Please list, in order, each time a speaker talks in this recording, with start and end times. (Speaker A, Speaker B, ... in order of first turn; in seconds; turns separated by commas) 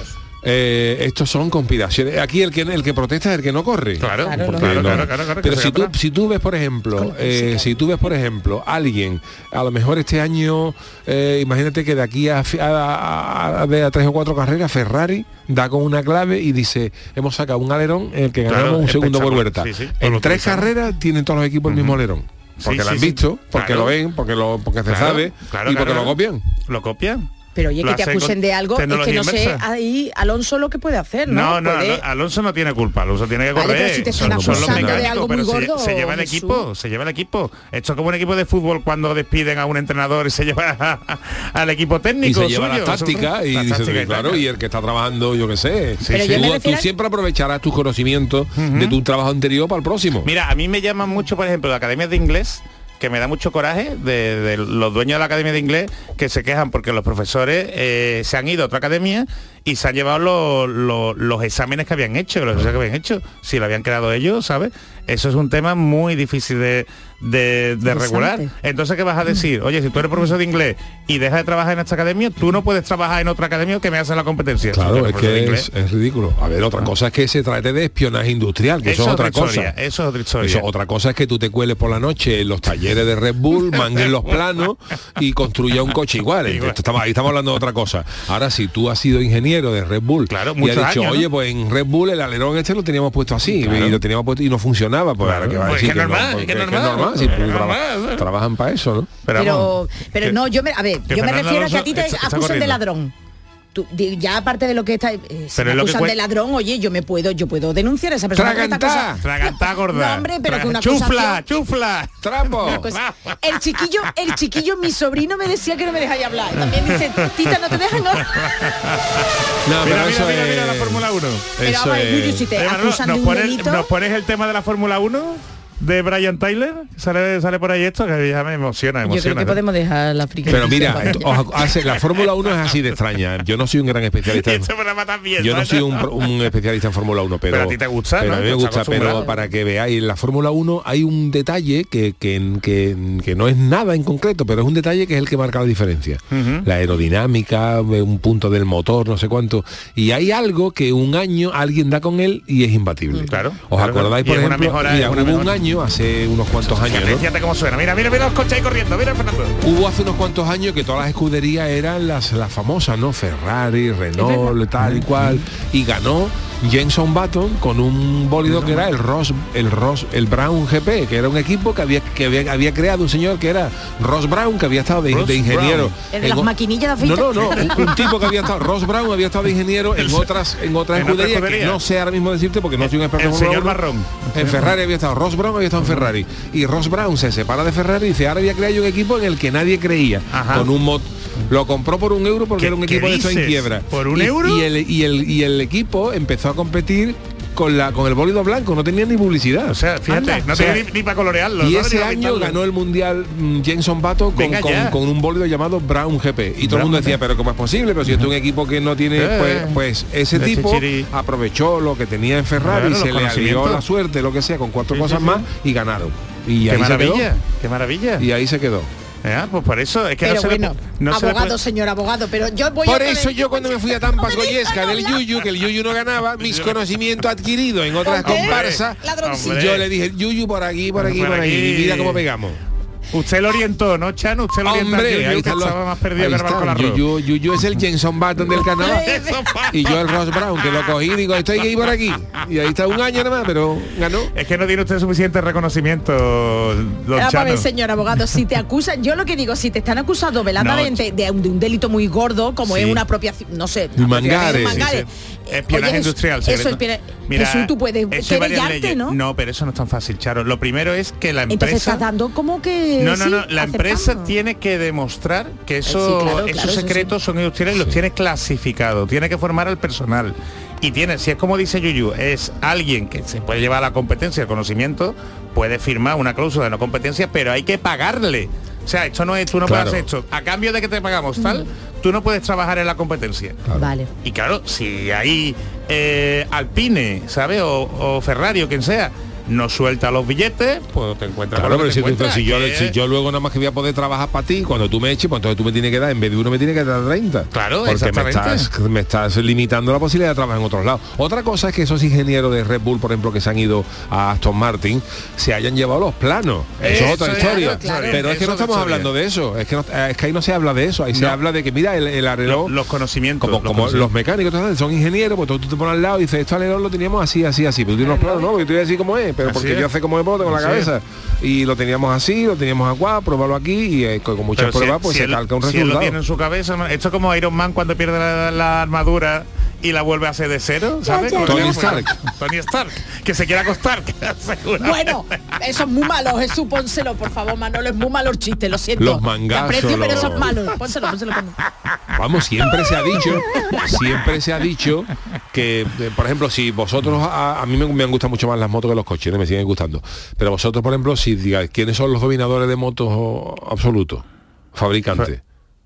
Speaker A: 0.4-26.4, Speaker B: 4.0-6.0, Speaker C: 4.2-5.1, Speaker C: 7.0-7.7, Speaker B: 18.5-20.7, Speaker B: 21.7-22.0, Speaker B: 22.6-24.0, Speaker B: 24.9-27.3, Speaker C: 27.6-32.0, Speaker B: 27.8-29.6, Speaker B: 31.3-44.4, Speaker C: 33.5-36.6, Speaker A: 34.1-35.1, Speaker A: 42.2-50.3, Speaker B: 46.0-46.4, Speaker C: 46.1-46.9, Speaker B: 48.6-49.0, Speaker B: 50.2-75.7, Speaker C: 67.9-68.5, Speaker A: 74.7-79.7, Speaker B: 78.8-80.7, Speaker A: 80.4-99.1, Speaker B: 83.7-84.1, Speaker B: 86.4-86.8, Speaker B: 90.3-91.3, Speaker B: 93.5-94.0, Speaker B: 95.2-98.3, Speaker B: 99.2-100.4, Speaker C: 99.3-103.1, Speaker B: 101.1-102.8, Speaker C: 103.7-111.4, Speaker B: 105.6-106.2, Speaker A: 108.3-109.2, Speaker B: 109.2-113.3, Speaker A: 112.2-112.9, Speaker C: 112.6-118.6, Speaker B: 116.6-117.6, Speaker B: 118.2-119.3, Speaker A: 119.7-122.5, Speaker B: 119.8-121.5, Speaker C: 121.6-123.9, Speaker B: 122.6-129.6, Speaker C: 129.1-131.4, Speaker B: 130.5-132.7, Speaker A: 130.5-134.7, Speaker B: 134.3-136.3, Speaker A: 135.4-157.3, Speaker B: 137.5-139.2, Speaker C: 139.1-139.3, Speaker B: 146.3-146.7, Speaker B: 153.3-155.6, Speaker B: 156.7-159.6, Speaker A: 159.6-183.8, Speaker C: 164.2-164.6, Speaker B: 164.8-165.4, Speaker B: 168.5-168.8, Speaker B: 175.1-175.9, Speaker C: 176.1-178.1, Speaker B: 177.5-177.8, Speaker B: 180.0-180.3, Speaker B: 180.9-181.8, Speaker B: 183.1-184.8, Speaker A: 184.3-200.9, Speaker B: 185.8-186.1, Speaker B: 190.3-190.7, Speaker B: 192.6-194.7, Speaker B: 199.7-202.6, Speaker A: 201.6-217.3, Speaker B: 204.3-205.0, Speaker B: 206.6-207.2, Speaker B: 209.2-209.8, Speaker B: 210.3-211.1, Speaker B: 212.6-213.8, Speaker B: 214.9-215.5, Speaker B: 216.7-218.3, Speaker A: 218.2-218.9, Speaker B: 219.2-221.6, Speaker C: 220.2-225.2, Speaker A: 222.8-232.6, Speaker B: 226.4-226.8, Speaker C: 228.0-229.6, Speaker B: 228.2-229.9, Speaker B: 231.0-232.2, Speaker B: 233.1-237.1, Speaker A: 234.6-244.3, Speaker B: 238.6-240.9, Speaker C: 238.8-239.4, Speaker B: 244.3-247.7, Speaker C: 247.1-259.2, Speaker B: 250.6-251.0, Speaker B: 252.7-253.0, Speaker A: 254.0-254.9, Speaker B: 254.3-262.1, Speaker C: 261.5-264.3, Speaker B: 263.0-283.6, Speaker C: 265.9-267.1, Speaker A: 267.7-268.0, Speaker A: 279.6-280.1, Speaker C: 281.4-281.6, Speaker C: 283.7-284.1, Speaker B: 284.2-292.9, Speaker A: 291.5-312.8, Speaker B: 297.5-298.7, Speaker B: 306.8-309.1, Speaker C: 306.9-308.2, Speaker B: 311.1-311.4, Speaker B: 312.5-314.1, Speaker A: 313.4-326.2, Speaker B: 319.4-319.9, Speaker B: 320.4-320.9, Speaker B: 324.6-335.4, Speaker C: 331.0-332.0, Speaker A: 331.4-332.1, Speaker C: 334.8-341.6, Speaker A: 339.0-340.6, Speaker A: 342.1-355.4, Speaker B: 343.2-343.8